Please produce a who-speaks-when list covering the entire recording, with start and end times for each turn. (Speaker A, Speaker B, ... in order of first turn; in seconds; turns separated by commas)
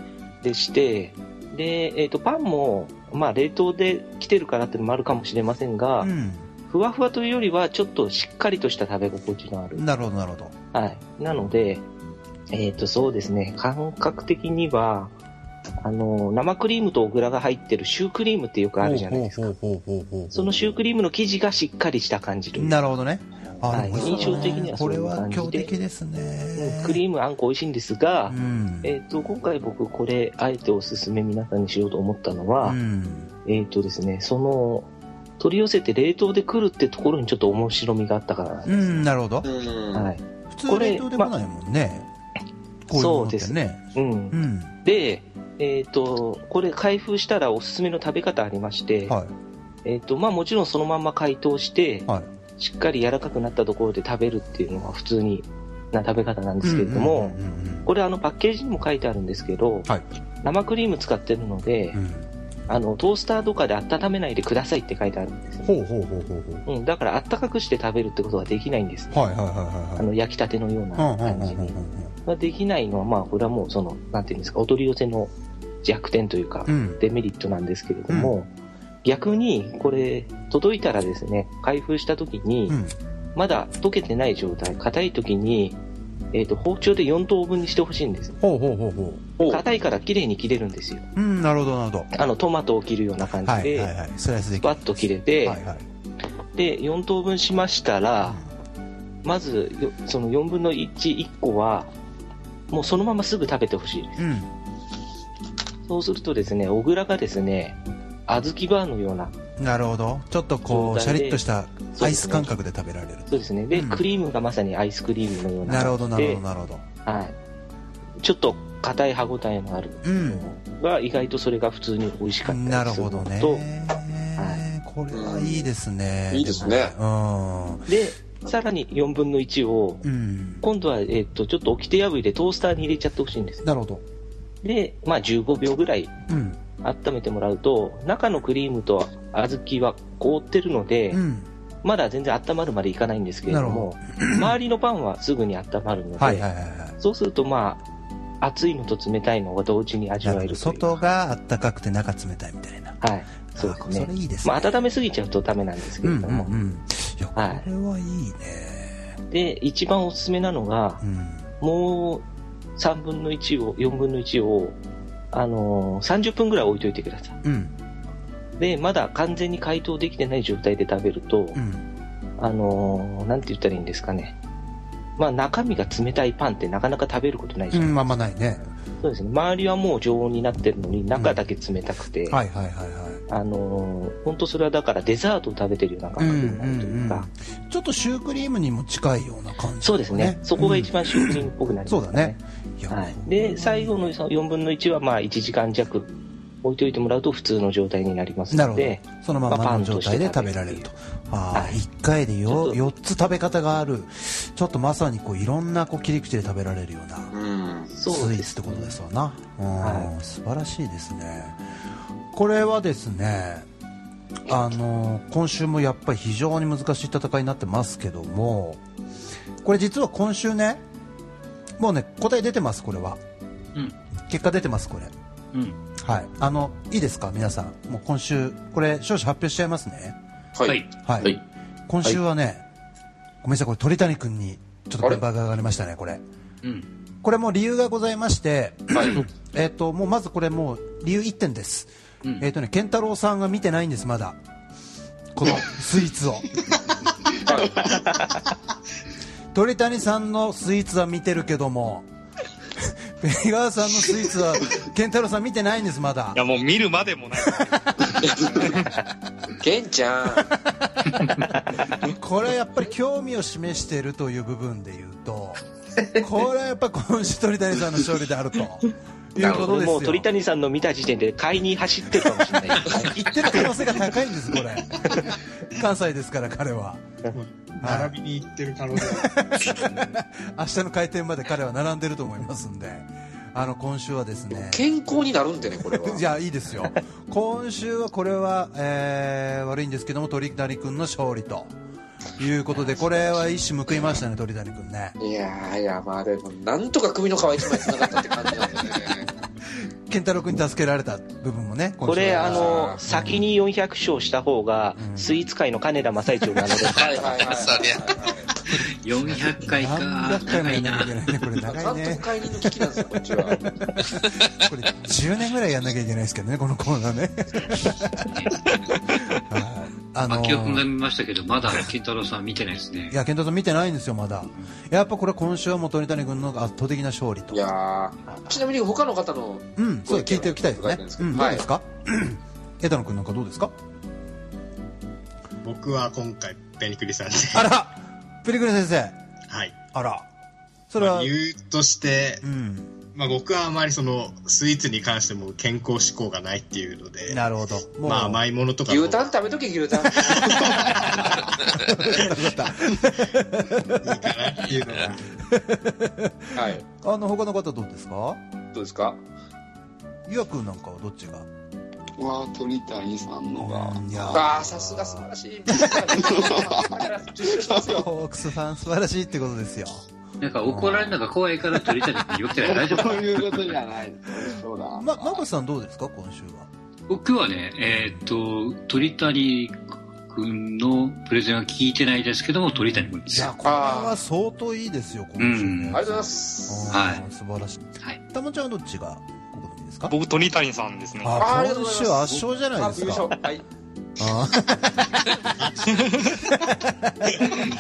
Speaker A: 0.4-6.1, Speaker B: 6.0-6.5, Speaker A: 6.7-9.9, Speaker B: 9.7-10.5, Speaker A: 10.7-11.8, Speaker A: 12.5-15.1, Speaker A: 15.8-19.5, Speaker B: 18.8-20.7, Speaker A: 20.3-22.8, Speaker B: 22.5-27.0, Speaker A: 23.7-25.7, Speaker C: 23.9-24.3, Speaker A: 26.6-32.8, Speaker B: 28.3-28.9, Speaker B: 32.6-33.3, Speaker A: 33.5-39.0, Speaker B: 38.7-39.5, Speaker C: 39.4-40.1, Speaker A: 39.9-41.4, Speaker B: 40.5-42.1, Speaker B: 42.9-44.8, Speaker A: 42.9-49.2, Speaker B: 49.1-49.3, Speaker A: 49.9-59.9, Speaker B: 56.6-57.9, Speaker A: 60.4-62.0, Speaker B: 61.9-62.3, Speaker A: 62.7-65.8, Speaker B: 65.6-66.7, Speaker A: 66.7-69.3, Speaker B: 69.1-70.1, Speaker A: 70.0-75.3, Speaker B: 71.0-72.1, Speaker A: 75.8-78.5, Speaker B: 76.7-77.0, Speaker B: 78.1-78.3, Speaker A: 79.0-82.8, Speaker B: 82.7-83.0, Speaker A: 83.3-85.8, Speaker A: 86.3-88.4, Speaker B: 88.4-89.2, Speaker A: 89.5-91.0, Speaker B: 91.2-92.1, Speaker A: 92.1-94.0, Speaker B: 93.4-95.8, Speaker A: 94.6-95.6, Speaker A: 96.5-98.4, Speaker B: 98.2-98.5, Speaker A: 99.2-101.9, Speaker A: 102.7-104.2, Speaker B: 104.2-104.5, Speaker A: 105.8-109.3, Speaker B: 109.6-114.1, Speaker A: 110.7-112.5, Speaker A: 113.3-116.4, Speaker B: 115.7-116.8, Speaker A: 117.0-117.4, Speaker A: 118.2-123.7, Speaker B: 120.0-120.5, Speaker B: 122.4-127.9, Speaker A: 124.4-124.6, Speaker C: 125.1-125.7, Speaker C: 126.3-126.9, Speaker A: 127.9-130.0, Speaker B: 130.0-130.7, Speaker A: 130.6-133.6, Speaker B: 133.6-134.0, Speaker A: 134.6-136.1, Speaker B: 136.3-136.6, Speaker A: 136.8-141.2, Speaker B: 141.1-141.5, Speaker A: 141.8-147.8, Speaker B: 143.5-144.6, Speaker B: 146.2-147.0, Speaker A: 148.4-150.9, Speaker B: 150.2-153.0, Speaker A: 153.0-156.6, Speaker B: 153.5-154.8, Speaker B: 156.0-159.2, Speaker A: 157.4-157.7, Speaker A: 159.3-161.0, Speaker B: 161.0-161.5, Speaker A: 161.6-162.2, Speaker A: 162.8-164.8, Speaker A: 165.3-167.4, Speaker B: 167.4-167.7, Speaker A: 168.6-171.6, Speaker B: 171.6-171.9, Speaker A: 172.4-174.4, Speaker A: 175.2-178.1, Speaker B: 177.7-178.7, Speaker A: 179.0-182.4, Speaker B: 181.2-181.5, Speaker B: 182.3-183.2, Speaker A: 183.3-187.3, Speaker B: 186.2-194.1, Speaker A: 189.8-196.1, Speaker A: 196.6-200.9, Speaker B: 198.5-207.3, Speaker A: 201.5-201.8, Speaker A: 202.5-202.8, Speaker C: 207.3-207.9, Speaker A: 207.9-209.0, Speaker B: 208.1-211.6, Speaker A: 209.8-210.1, Speaker B: 212.3-213.7, Speaker B: 214.5-218.8, Speaker B: 219.6-220.8, Speaker B: 221.8-223.2, Speaker B: 224.3-225.1, Speaker D: 225.5-225.8, Speaker B: 226.0-230.2, Speaker C: 230.6-231.4, Speaker B: 231.0-232.7, Speaker B: 233.4-236.2, Speaker D: 236.6-236.9, Speaker B: 237.2-244.4, Speaker C: 238.9-239.2, Speaker B: 245.3-246.6, Speaker C: 247.4-248.0, Speaker B: 249.5-252.1, Speaker B: 252.8-256.5, Speaker E: 256.4-258.9, Speaker C: 259.6-260.6, Speaker B: 260.7-270.3, Speaker A: 269.4-273.7, Speaker B: 272.7-277.0, Speaker F: 277.3-279.4, Speaker B: 277.8-278.1, Speaker B: 279.1-284.9, Speaker C: 284.5-286.2, Speaker B: 285.9-291.7, Speaker B: 292.4-295.2, Speaker D: 292.9-293.5, Speaker C: 295.2-299.3, Speaker B: 299.7-303.5, Speaker A: 302.0-307.5, Speaker C: 302.2-303.0, Speaker B: 305.0-305.5, Speaker C: 306.9-308.5, Speaker B: 308.6-312.6, Speaker D: 308.7-311.2, Speaker C: 311.6-313.7, Speaker B: 314.0-318.3, Speaker D: 318.1-318.6, Speaker B: 319.3-320.9, Speaker D: 320.3-323.2, Speaker B: 323.1-327.6, Speaker C: 327.5-331.7, Speaker B: 329.8-333.7, Speaker F: 335.6-337.7, Speaker B: 337.5-339.2, Speaker F: 339.5-339.8, Speaker B: 339.9-340.3, Speaker B: 340.9-341.3, Speaker F: 341.0-342.4, Speaker B: 342.4-342.9, Speaker F: 343.1-349.4, Speaker B: 347.3-348.4, Speaker C: 348.9-351.2, Speaker F: 350.0-351.3, Speaker B: 351.7-354.2, Speaker F: 354.0-355.2, Speaker B: 355.4-358.4, Speaker C: 356.6-356.8, Speaker C: 358.7-359.2, Speaker B: 360.3-361.5, Speaker G: 362.2-364.0, Speaker B: 363.6-365.3, Speaker C: 364.3-368.1, Speaker B: 365.9-366.2, Speaker G: 366.3-367.9, Speaker B: 367.9-370.0, Speaker D: 370.4-373.2, Speaker B: 370.6-371.2, Speaker G: 372.8-374.0, Speaker G: 374.6-375.0, Speaker B: 374.9-376.7, Speaker D: 377.1-379.8, Speaker B: 377.9-378.2, Speaker D: 380.3-383.5, Speaker B: 382.7-387.8, Speaker C: 383.6-384.2, Speaker D: 385.4-386.0, Speaker C: 385.9-387.0, Speaker D: 386.9-387.2, Speaker B: 388.3-390.2, Speaker E: 390.1-391.4, Speaker B: 391.2-393.3, Speaker C: 391.4-393.6, Speaker B: 394.2-395.1, Speaker F: 395.6-395.9, Speaker B: 396.5-397.4